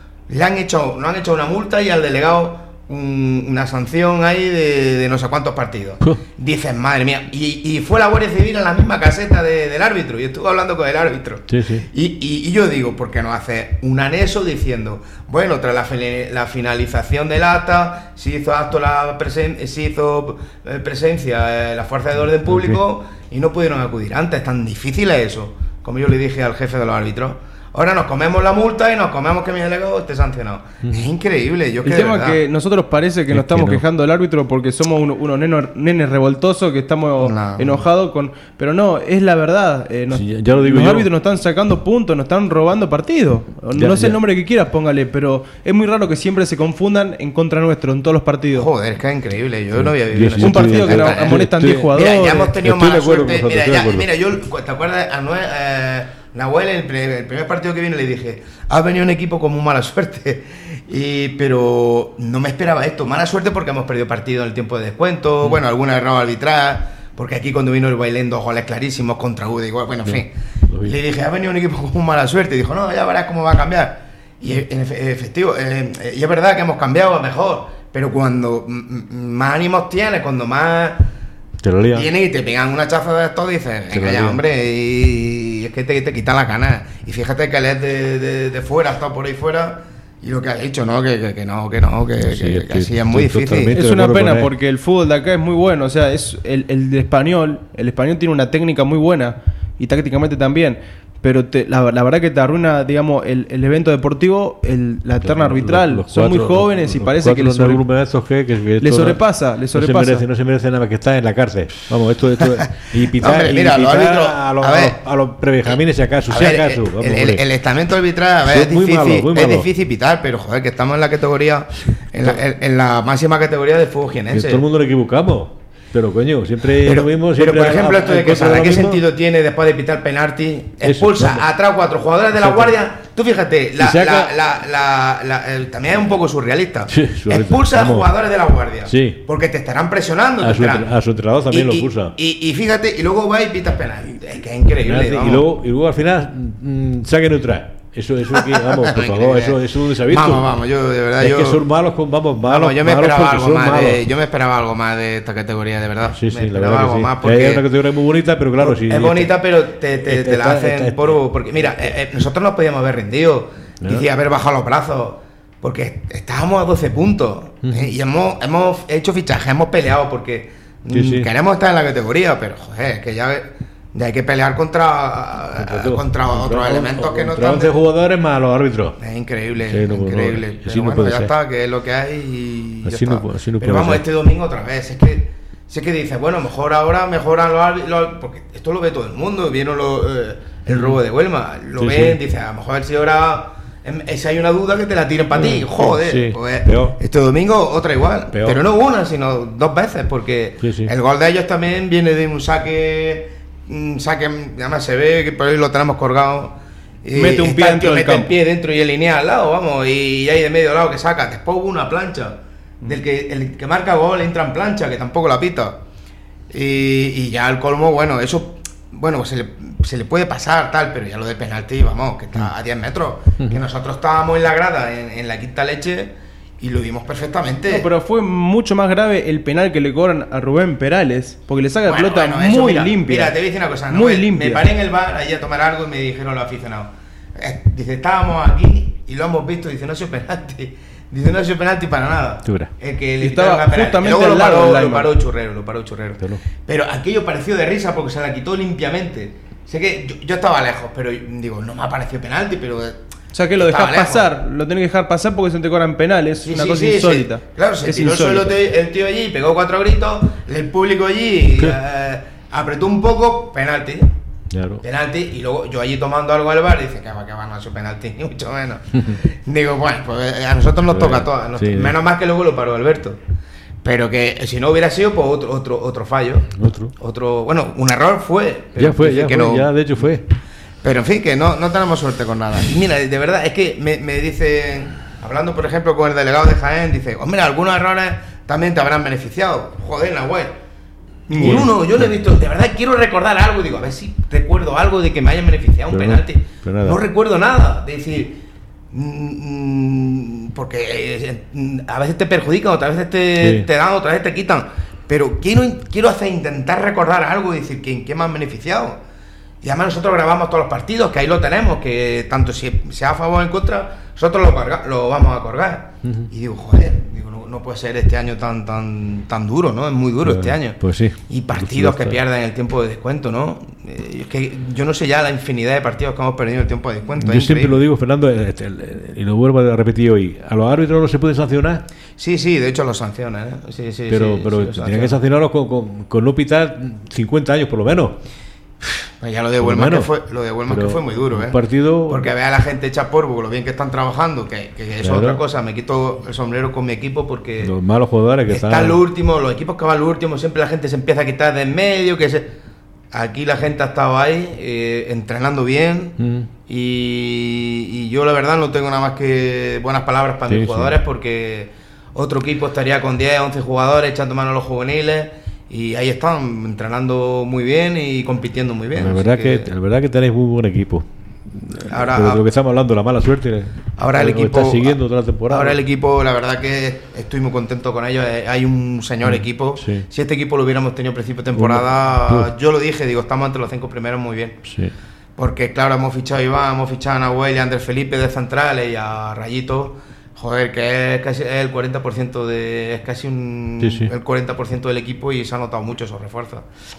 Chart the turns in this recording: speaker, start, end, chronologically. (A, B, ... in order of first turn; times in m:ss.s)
0:00.3-0:32.4 A
0:11.5-0:11.9 B
0:22.4-0:22.8 B
0:30.8-0:31.1 B
0:31.8-0:48.7 C
0:33.3-0:33.8 B
0:37.2-0:37.9 A
0:40.1-0:41.1 B
0:43.8-0:44.2 B
0:48.5-1:21.1 A
0:49.7-0:54.1 B
0:50.4-0:52.5 C
1:10.0-1:11.0 B
1:21.6-1:22.1 B
1:21.9-1:33.8 A
1:23.9-1:24.4 B
1:32.2-1:34.5 B
1:33.7-1:47.8 C
1:45.2-1:49.2 B
1:48.8-1:50.2 C
1:49.7-1:57.4 B
1:53.2-1:55.0 A
1:56.3-2:04.6 A
1:58.4-1:59.7 B
2:04.3-2:09.0 B
2:06.8-2:20.9 A
2:10.8-2:11.4 B
2:12.4-2:12.8 B
2:13.8-2:14.3 B
2:16.9-2:18.1 B
2:18.9-2:19.2 B
2:20.4-2:22.1 B
2:21.5-2:25.4 A
2:24.8-2:30.5 B
2:28.4-2:31.6 A
2:31.2-2:34.0 B
2:32.4-2:37.6 A
2:36.1-2:39.3 B
2:38.6-2:57.7 A
2:40.0-2:41.9 B
2:47.6-2:47.9 B
2:50.9-2:51.3 B
2:55.5-2:59.0 B
2:59.0-3:35.8 A
2:59.7-3:01.3 B
3:02.8-3:04.1 B
3:10.7-3:11.0 B
3:11.8-3:12.2 B
3:15.3-3:17.0 B
3:18.3-3:18.6 B
3:20.6-3:20.9 B
3:27.1-3:28.3 C
3:36.5-3:47.9 A
3:47.7-3:53.4 C
3:51.9-4:13.0 A
3:53.9-3:54.6 C
4:02.4-4:02.7 B
4:03.2-4:05.1 C
4:13.3-4:18.5 C
4:13.6-4:14.3 A
4:16.4-4:24.1 A
4:24.5-4:24.8 B
4:24.8-4:33.2 A
4:30.9-4:32.0 B
4:33.8-4:40.1 A
4:36.6-4:36.9 B
4:38.8-4:40.2 B
4:40.8-4:50.6 A
4:51.3-5:09.0 A
4:51.4-4:51.7 C
4:51.4-4:52.1 B
4:55.9-4:57.0 B
5:03.4-5:03.7 B
5:09.6-5:27.8 A
5:20.2-5:22.2 B
5:27.2-5:31.9 B
5:32.2-5:35.2 A
5:34.1-5:38.2 B
5:38.8-5:47.7 A
5:39.6-5:40.1 B
5:40.7-5:42.3 B
5:45.0-5:45.4 B
5:47.6-5:49.0 B
5:48.5-5:52.5 A
5:53.1-6:09.7 A
5:56.2-5:56.5 B
6:00.5-6:01.0 B
6:08.9-6:15.8 B
6:11.9-6:12.4 A
6:14.0-6:24.6 A
6:19.2-6:20.1 B
6:21.5-6:22.5 B
6:24.7-6:24.9 B
6:25.4-6:36.6 A
6:33.8-6:34.1 B